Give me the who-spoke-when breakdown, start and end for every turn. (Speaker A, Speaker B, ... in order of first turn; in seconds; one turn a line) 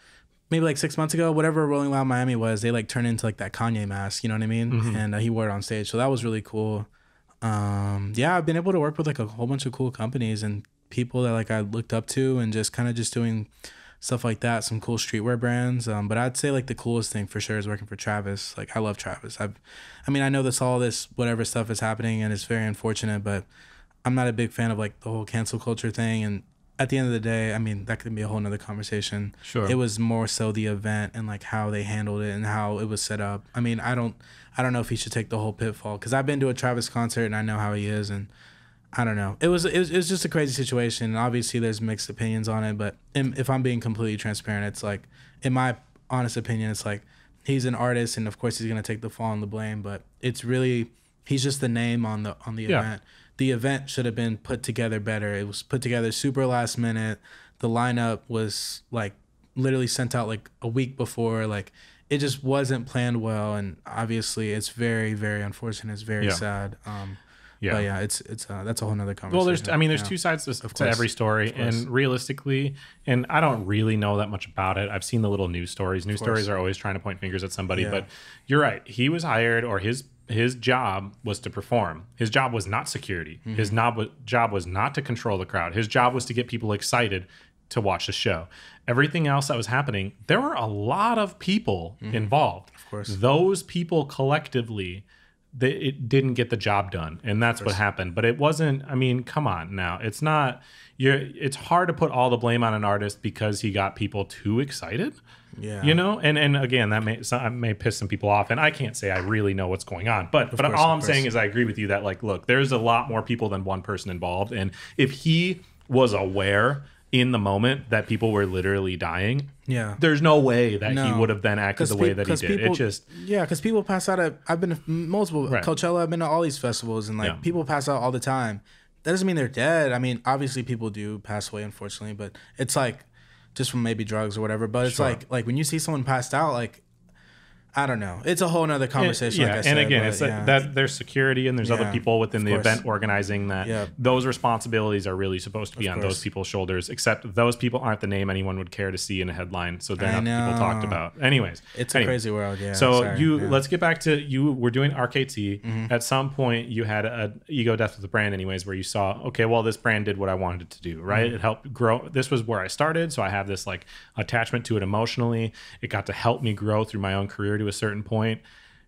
Speaker A: 0.5-6.9
Speaker B: 4.7-5.0
Speaker A: 7.4-13.5
Speaker A: 14.0-23.5
Speaker A: 24.0-38.3
Speaker B: 29.4-29.8
Speaker A: 38.9-71.8
Speaker B: 69.3-105.2
Speaker A: 76.1-76.5
Speaker A: 77.7-78.0
Speaker A: 83.4-83.8
Speaker A: 92.0-93.1
Speaker A: 105.6-106.0
Speaker B: 105.8-123.0
Speaker A: 110.5-111.3
Speaker A: 119.7-120.0
Speaker A: 120.8-136.8
Speaker B: 134.8-135.2
Speaker A: 137.7-140.6
Speaker B: 138.9-152.2
Speaker A: 141.6-142.8
Speaker A: 143.6-143.9
Speaker A: 145.8-146.2
Speaker A: 150.0-151.0
Speaker A: 151.7-153.6
Speaker B: 152.7-168.4
Speaker A: 155.6-155.9